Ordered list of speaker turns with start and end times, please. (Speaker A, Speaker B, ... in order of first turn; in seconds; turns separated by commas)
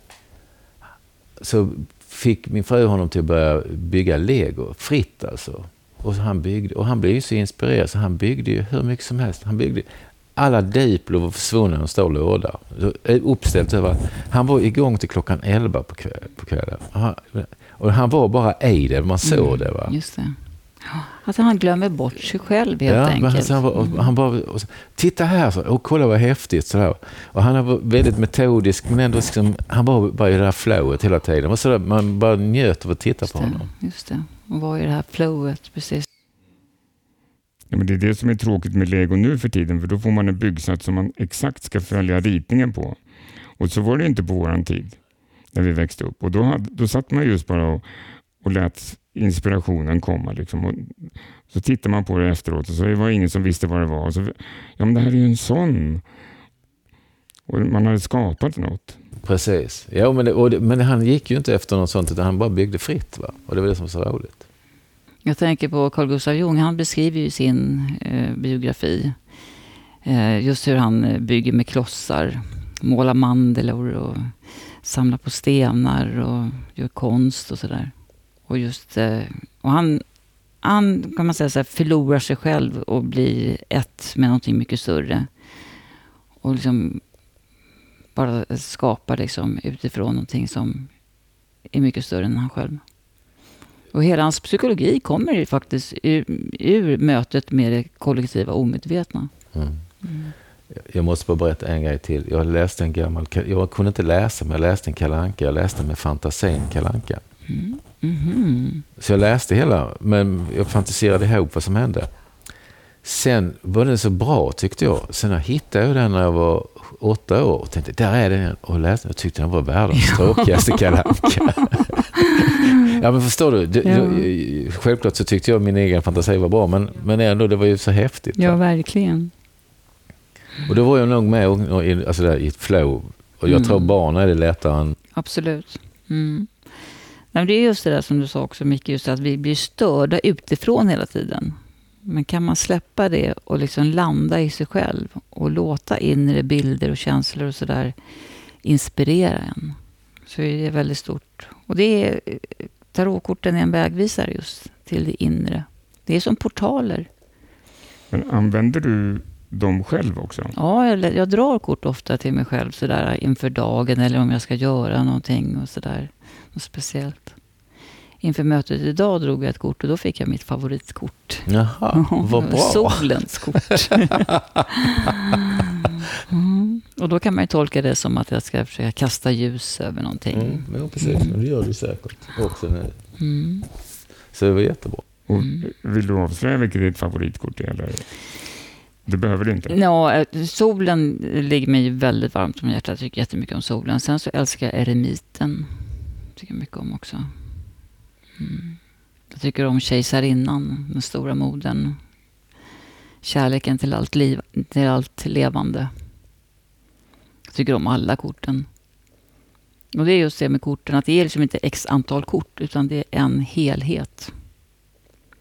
Speaker A: 1.4-19.9, Speaker B: 19.2-24.1, Speaker A: 22.9-33.7, Speaker B: 33.2-36.0, Speaker C: 37.7-43.0, Speaker C: 43.6-45.0, Speaker C: 45.5-47.8, Speaker C: 48.4-56.0, Speaker C: 57.5-59.0, Speaker A: 59.2-64.4, Speaker B: 65.2-69.2, Speaker B: 70.0-77.9, Speaker B: 78.5-80.0, Speaker B: 80.6-85.3, Speaker B: 86.4-87.0, Speaker B: 88.2-90.9, Speaker B: 91.7-92.8, Speaker B: 93.9-99.3, Speaker A: 99.5-99.8, Speaker B: 100.0-100.3, Speaker A: 100.7-107.2, Speaker B: 107.5-108.8, Speaker A: 109.0-112.1, Speaker A: 113.0-128.6, Speaker B: 119.9-120.8, Speaker B: 121.4-122.9, Speaker B: 123.8-124.3, Speaker B: 128.4-129.3, Speaker A: 130.7-135.0, Speaker B: 133.5-133.9, Speaker B: 135.2-136.5, Speaker B: 137.3-147.9, Speaker B: 148.6-157.1, Speaker C: 158.1-160.5, Speaker B: 160.5-167.3, Speaker B: 168.2-174.3, Speaker A: 171.5-173.7, Speaker B: 174.8-181.3, Speaker A: 180.3-183.0, Speaker B: 183.2-183.7, Speaker A: 184.3-185.1, Speaker C: 185.3-188.1, Speaker C: 189.1-189.8, Speaker B: 189.7-195.7, Speaker B: 196.3-197.3, Speaker B: 198.4-202.0, Speaker B: 203.2-205.9, Speaker B: 207.5-208.7, Speaker B: 209.9-214.3